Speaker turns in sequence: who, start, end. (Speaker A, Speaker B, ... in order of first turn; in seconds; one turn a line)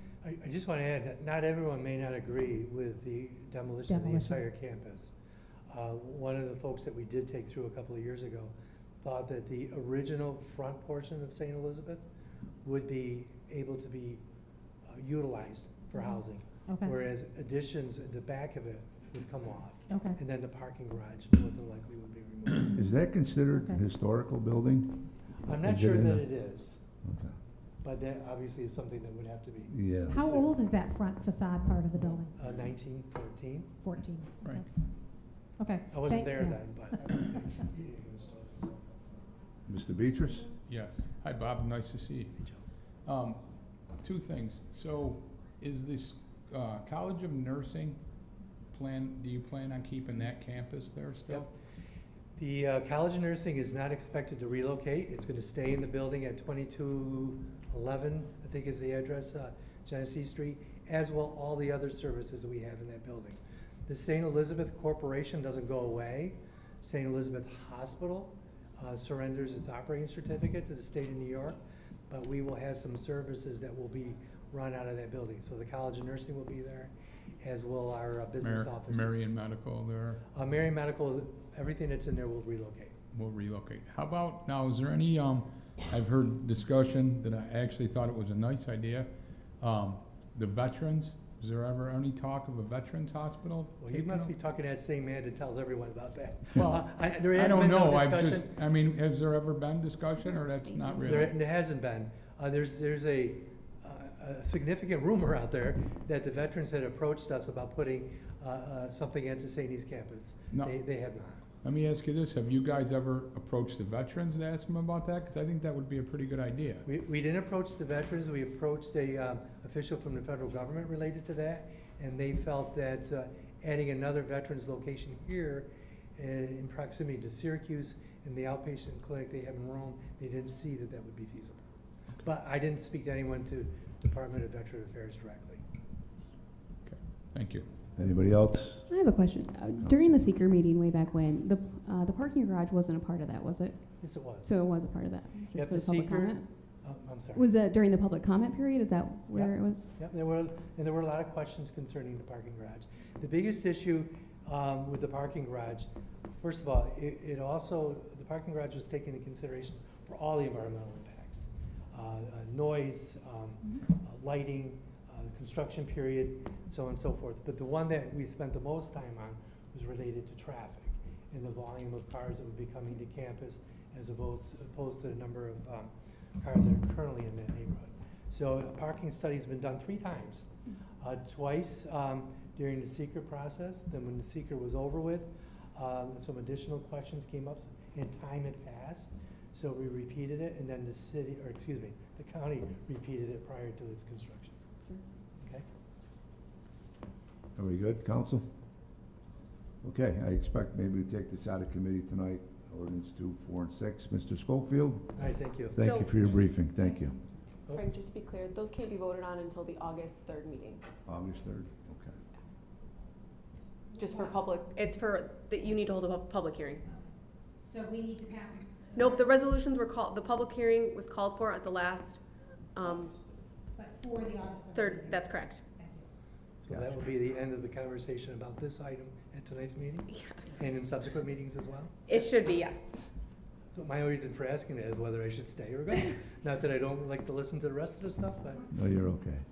Speaker A: 0.2-5.1
Speaker B: 3.9-4.4
Speaker A: 5.7-12.0
Speaker A: 12.6-14.2
Speaker A: 14.9-22.8
Speaker B: 16.7-16.9
Speaker B: 19.9-20.2
Speaker C: 22.7-26.3
Speaker A: 25.4-26.8
Speaker C: 27.0-27.3
Speaker A: 27.8-30.5
Speaker C: 29.7-30.2
Speaker B: 30.1-32.3
Speaker A: 32.3-33.7
Speaker B: 33.8-34.7
Speaker B: 35.6-36.6
Speaker A: 35.9-37.6
Speaker C: 39.7-40.5
Speaker D: 40.7-42.4
Speaker D: 43.0-43.4
Speaker D: 44.0-48.0
Speaker D: 48.7-51.5
Speaker A: 52.4-79.3
Speaker D: 78.4-80.2
Speaker A: 80.3-82.9
Speaker D: 83.1-89.1
Speaker D: 89.6-94.3
Speaker A: 93.8-98.5
Speaker D: 96.5-101.3
Speaker E: 100.4-101.2
Speaker A: 101.0-111.4
Speaker D: 110.5-110.8
Speaker D: 111.6-116.8
Speaker A: 116.8-131.7
Speaker A: 132.2-135.6
Speaker D: 136.8-137.7
Speaker C: 138.0-138.9
Speaker E: 138.9-143.9
Speaker C: 139.8-140.1
Speaker A: 144.0-144.5
Speaker E: 144.4-146.5
Speaker A: 145.5-147.5
Speaker E: 147.3-149.9
Speaker A: 149.3-180.5
Speaker A: 181.0-194.6
Speaker C: 197.6-198.5
Speaker C: 199.8-207.2
Speaker A: 205.2-205.8
Speaker F: 205.8-206.2
Speaker F: 207.7-210.8
Speaker C: 211.1-212.2
Speaker F: 213.9-216.8
Speaker B: 213.9-214.3
Speaker B: 217.7-219.2
Speaker F: 218.9-222.2
Speaker F: 222.8-223.1
Speaker B: 223.8-226.1
Speaker F: 224.7-225.6
Speaker A: 226.6-232.1
Speaker F: 230.1-230.6
Speaker F: 232.1-233.0
Speaker A: 233.7-238.7
Speaker C: 238.7-239.4